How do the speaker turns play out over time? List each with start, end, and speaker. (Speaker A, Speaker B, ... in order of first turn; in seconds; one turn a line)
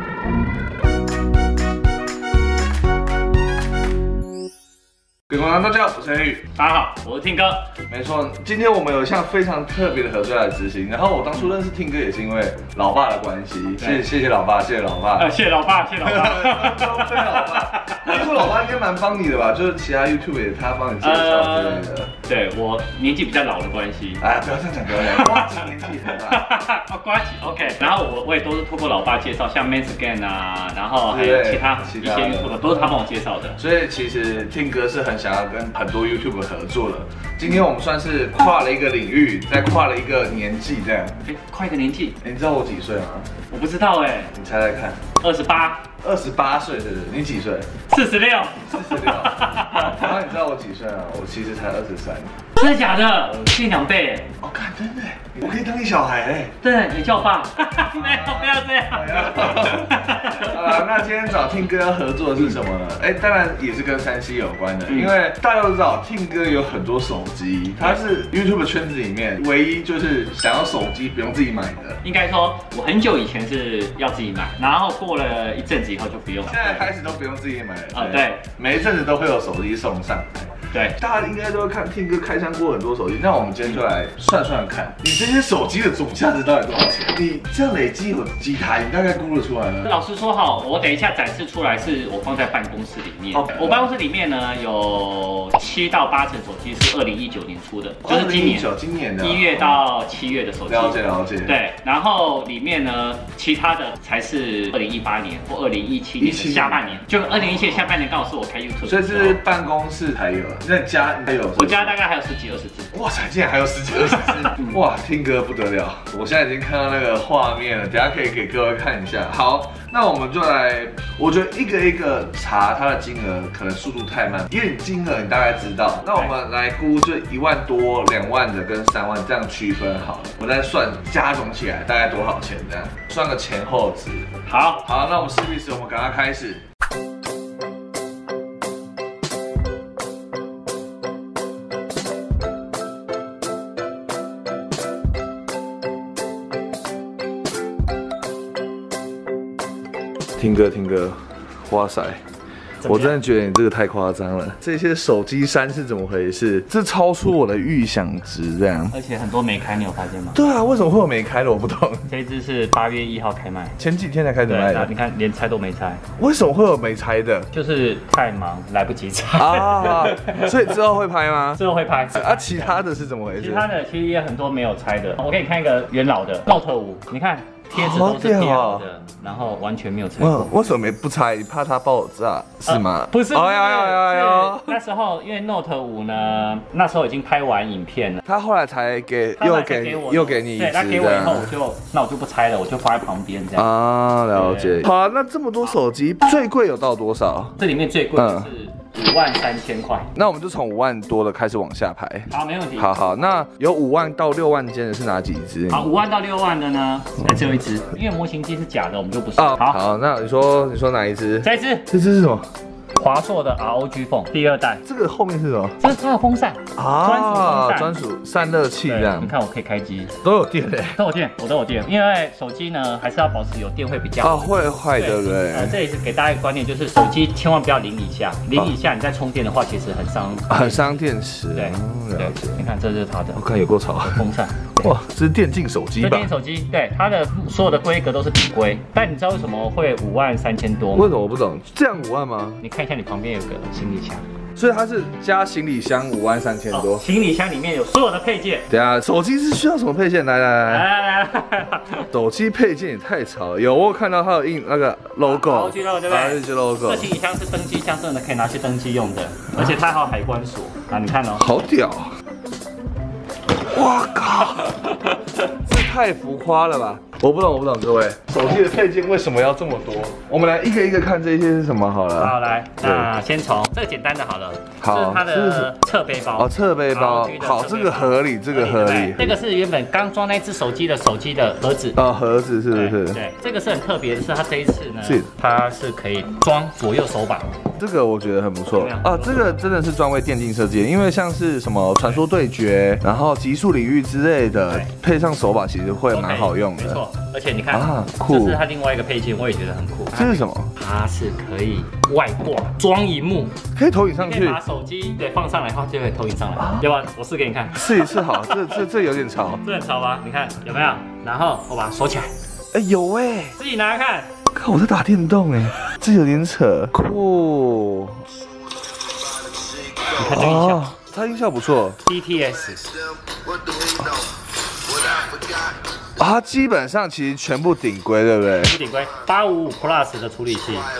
Speaker A: 5.3-6.4
Speaker B: 6.5-7.7
Speaker A: 7.9-15.3
Speaker B: 13.8-14.1
Speaker B: 15.2-18.4
Speaker A: 16.0-22.1
Speaker B: 21.0-24.2
Speaker A: 24.2-26.5
Speaker B: 24.9-33.6
Speaker A: 31.1-33.0
Speaker A: 33.6-41.2
Speaker B: 41.2-42.2
Speaker A: 42.2-43.3
Speaker B: 43.5-44.3
Speaker A: 44.3-45.1
Speaker B: 45.2-45.9
Speaker A: 46.0-47.7
Speaker B: 47.9-50.0
Speaker A: 48.7-52.3
Speaker B: 52.6-54.3
Speaker A: 54.4-56.5
Speaker B: 56.6-60.8
Speaker A: 57.8-72.0
Speaker B: 64.9-65.1
Speaker B: 72.0-76.9
Speaker A: 76.4-89.9
Speaker B: 77.9-78.5
Speaker B: 80.7-81.0
Speaker B: 89.8-98.7
Speaker A: 93.3-93.9
Speaker A: 98.0-99.8
Speaker B: 99.2-109.4
Speaker A: 100.7-101.5
Speaker A: 106.2-107.0
Speaker A: 108.8-112.0
Speaker B: 111.5-112.9
Speaker A: 112.9-134.3
Speaker B: 114.1-114.8
Speaker B: 126.0-126.3
Speaker B: 134.4-134.8
Speaker A: 134.8-136.6
Speaker A: 150.4-152.2
Speaker B: 152.8-153.2
Speaker A: 152.8-158.9
Speaker B: 158.9-160.4
Speaker A: 160.3-162.1
Speaker B: 162.1-163.8
Speaker A: 163.8-164.9
Speaker B: 164.5-166.0
Speaker A: 166.2-167.5
Speaker B: 167.5-170.8
Speaker A: 169.4-171.6
Speaker B: 171.6-172.8
Speaker A: 172.1-173.7
Speaker B: 173.4-180.5
Speaker A: 177.7-178.9
Speaker A: 180.2-184.8
Speaker B: 182.7-188.2
Speaker A: 188.2-191.6
Speaker B: 189.4-193.7
Speaker A: 193.6-197.6
Speaker B: 194.3-194.8
Speaker B: 197.6-200.1
Speaker A: 198.2-198.5
Speaker A: 200.2-205.9
Speaker B: 202.3-202.9
Speaker B: 205.7-209.8
Speaker A: 209.4-212.5
Speaker B: 211.4-211.9
Speaker B: 213.0-214.8
Speaker A: 214.8-215.8
Speaker B: 215.8-218.0
Speaker A: 216.8-219.3
Speaker B: 218.9-220.2
Speaker A: 220.2-221.0
Speaker B: 220.9-233.5
Speaker A: 224.2-225.8
Speaker A: 230.5-232.6
Speaker A: 233.3-234.2
Speaker B: 234.1-234.9
Speaker A: 234.8-236.3
Speaker B: 236.0-241.1
Speaker A: 240.9-242.6
Speaker B: 242.6-244.2
Speaker A: 244.6-247.1
Speaker B: 246.7-248.7
Speaker A: 248.7-250.9
Speaker B: 250.7-252.1
Speaker A: 252.1-257.1
Speaker B: 255.2-261.4
Speaker A: 261.4-262.1
Speaker A: 263.6-273.1
Speaker B: 272.2-282.0
Speaker A: 274.8-275.7
Speaker A: 276.4-279.4
Speaker A: 281.9-283.2
Speaker B: 282.7-287.7
Speaker A: 285.0-285.3
Speaker A: 287.8-297.0
Speaker B: 288.8-289.6
Speaker B: 296.1-303.6
Speaker A: 297.7-298.6
Speaker A: 300.1-300.7
Speaker A: 303.7-304.6
Speaker B: 304.1-308.8
Speaker A: 306.6-306.9
Speaker A: 307.7-309.6
Speaker B: 309.6-312.3
Speaker A: 312.7-313.6
Speaker B: 313.6-314.3
Speaker A: 314.5-318.2
Speaker B: 320.1-320.9
Speaker A: 320.2-322.0
Speaker B: 322.1-322.9
Speaker A: 326.2-328.8
Speaker B: 328.6-330.9